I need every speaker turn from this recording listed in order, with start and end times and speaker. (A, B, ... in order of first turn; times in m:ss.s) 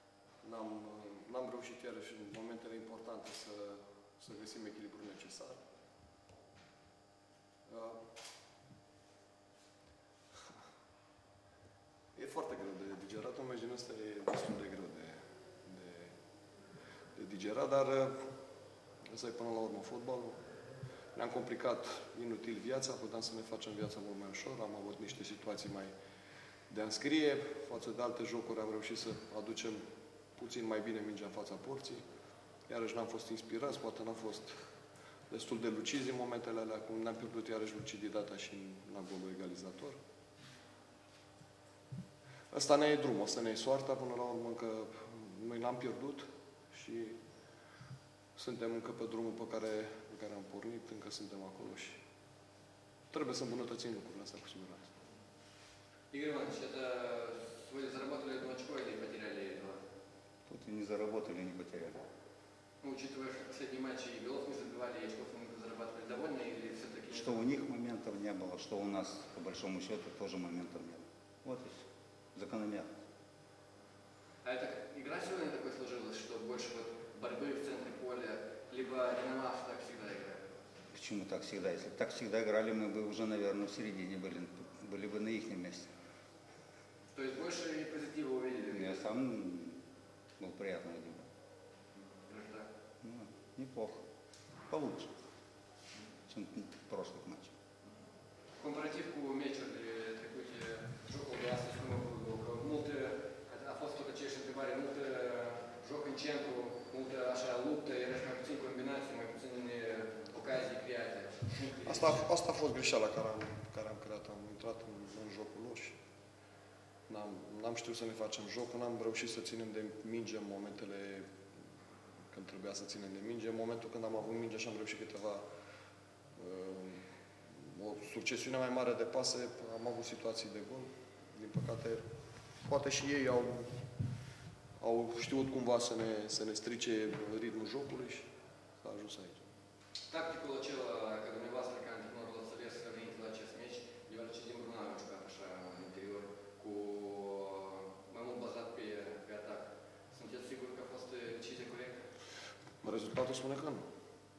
0:00.4-0:05.6 A
0:07.7-0:08.0 A
0:12.1-0:16.2 A
0:17.2-0:18.3 A
0:19.0-0:20.4 A
0:21.1-0:25.9 A
0:26.7-0:29.9 A
0:30.4-0:32.0 A
0:32.7-0:34.6 A
0:35.3-0:40.0 A
0:42.5-0:47.2 A
0:48.4-0:52.0 A
0:53.1-0:55.0 A
0:56.1-0:59.8 B
1:00.5-1:02.0 C
1:02.8-1:07.6 B
1:07.1-1:12.9 C
1:14.4-1:20.6 B
1:20.9-1:25.9 C
1:27.1-1:29.0 B
1:28.7-1:29.8 C
1:30.4-1:31.2 C
1:32.1-1:32.7 B
1:33.0-1:34.0 C
1:34.7-1:35.1 C
1:36.3-1:37.5 C
1:38.6-1:52.3 B
1:51.9-1:56.0 A
1:57.1-2:01.3 A
2:02.3-2:05.5 A
2:06.4-2:12.1 A
2:12.6-2:13.8 A
2:14.8-2:18.3 A
2:18.8-2:19.4 A
2:20.1-2:32.1 B
2:32.8-2:33.9 A